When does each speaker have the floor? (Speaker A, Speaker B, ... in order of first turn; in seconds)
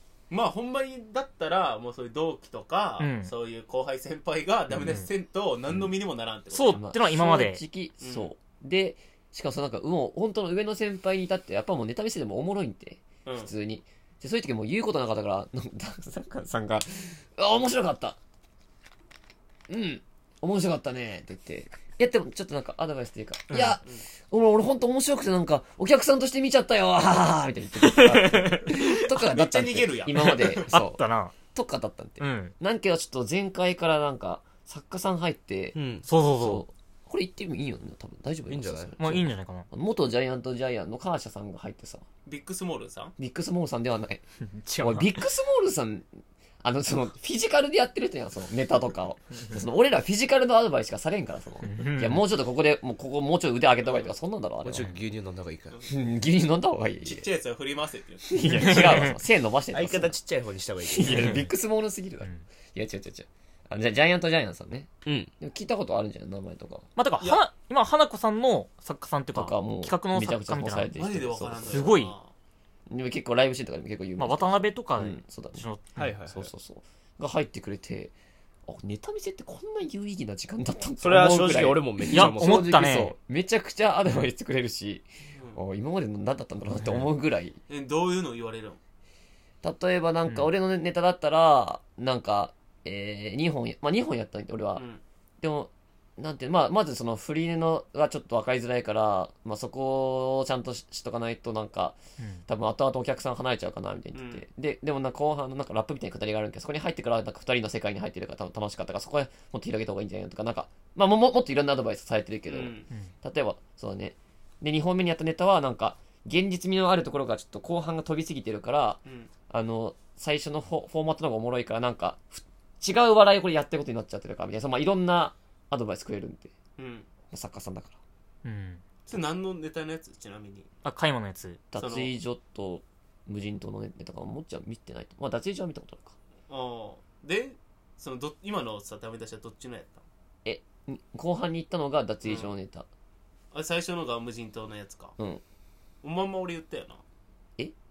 Speaker A: 0.3-6.8, 8.0-8.3, 29.0-30.7, 42.3-43.1, 57.0-59.0, 70.9-72.3, 85.3-85.6, 87.7-88.8, 94.8-95.0, 104.2-104.4, 112.5-112.9, 126.8-127.1, 129.1-130.7, 131.8-132.1, 136.5-140.0, 142.2-142.5, 143.5-145.1, 146.0-147.0
Speaker B: 3.0-3.3, 4.8-5.1, 6.5-7.6, 23.5-23.8, 27.8-29.0, 30.2-31.4, 32.2-32.5, 36.0-36.7, 39.0-39.7, 44.5-45.2, 51.6-52.2, 58.6-59.1, 61.1-61.5, 67.0-70.9, 71.7-72.2, 74.2-76.1, 82.1-83.2, 86.8-87.1, 128.4-128.8, 130.8-131.6
Speaker C: 6.7-18.2, 19.7-35.8, 36.3-42.0, 43.2-44.2, 44.8-46.1, 46.6-54.9, 55.9-57.3, 58.3-60.2, 60.9-66.9, 69.3-71.9, 72.9-75.6, 76.3-78.1, 78.7-87.6, 89.6-94.8, 95.4-126.5, 127.3-128.0, 131.7-136.2, 140.4-142.9
Speaker D: 35.8-36.1, 38.5-39.2, 54.6-55.8, 59.7-61.4, 76.0-76.5, 81.0-82.7